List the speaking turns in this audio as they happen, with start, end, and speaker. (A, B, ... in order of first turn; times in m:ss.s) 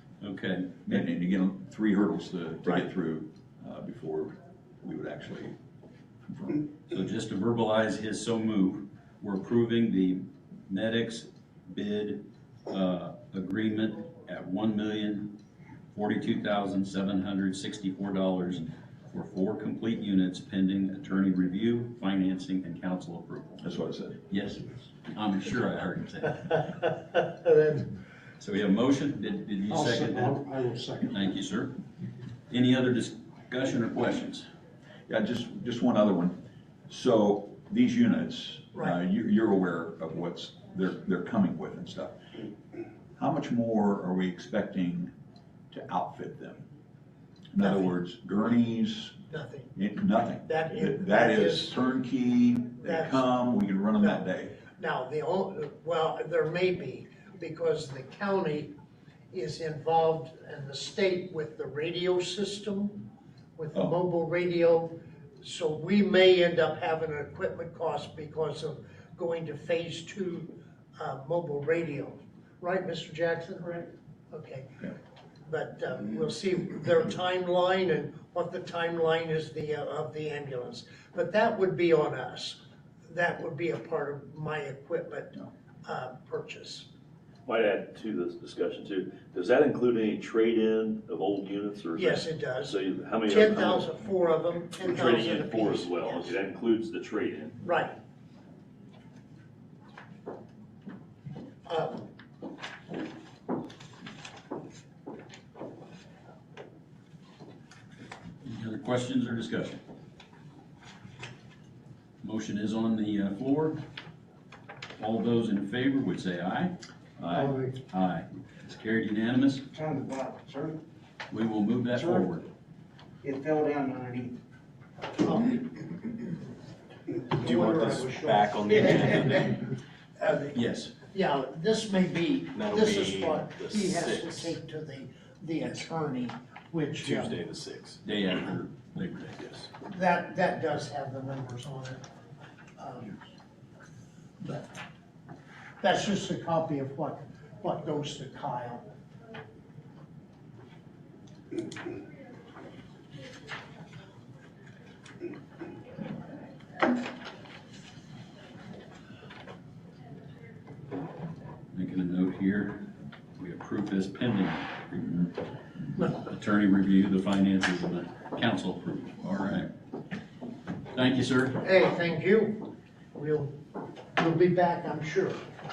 0:00.2-0:01.0 A
0:00.8-0:05.5 B
0:06.3-0:06.6 B
0:06.9-0:15.4 A
0:15.9-0:23.6 A
0:23.6-0:24.2 B
0:24.3-0:26.7 A
0:27.1-0:27.9 C
0:28.4-0:30.4 A
0:29.7-0:31.0 D
0:31.0-0:31.7 A
0:32.5-0:34.4 A
0:35.1-0:42.2 B
0:43.2-0:45.1 B
0:45.7-0:46.6 B
0:47.5-0:49.1 B
0:47.6-0:47.9 C
0:49.3-0:49.7 C
0:49.8-0:54.6 B
0:50.4-0:51.7 C
0:52.8-0:53.3 C
0:54.0-0:58.7 C
0:59.3-1:14.9 C
1:15.4-1:26.9 C
1:27.4-1:33.9 E
1:31.9-1:36.4 C
1:34.8-1:37.6 E
1:37.6-1:38.0 C
1:41.7-1:42.1 C
1:48.4-1:49.8 A
1:52.2-1:53.8 A
1:55.0-1:56.7 A
1:57.2-1:57.6 B
1:57.9-1:59.6 A
1:59.7-2:00.8 D
2:01.3-2:02.4 A
2:01.9-2:02.2 D
2:03.2-2:04.3 D
2:05.2-2:05.6 C
2:07.3-2:09.6 C
2:07.4-2:09.6 F
2:08.7-2:09.4 D
2:10.2-2:10.6 C
2:10.5-2:10.9 A
2:11.1-2:17.4 C
2:12.5-2:14.6 F
2:17.0-2:18.0 F
2:18.0-2:19.6 A
2:19.8-2:22.0 C
2:22.8-2:23.2 C
2:24.4-2:24.8 C
2:25.8-2:28.8 C
2:41.7-2:42.8 A
2:43.4-2:45.2 A
2:46.0-2:49.7 A
2:50.9-2:51.6 A
2:51.6-2:55.4 C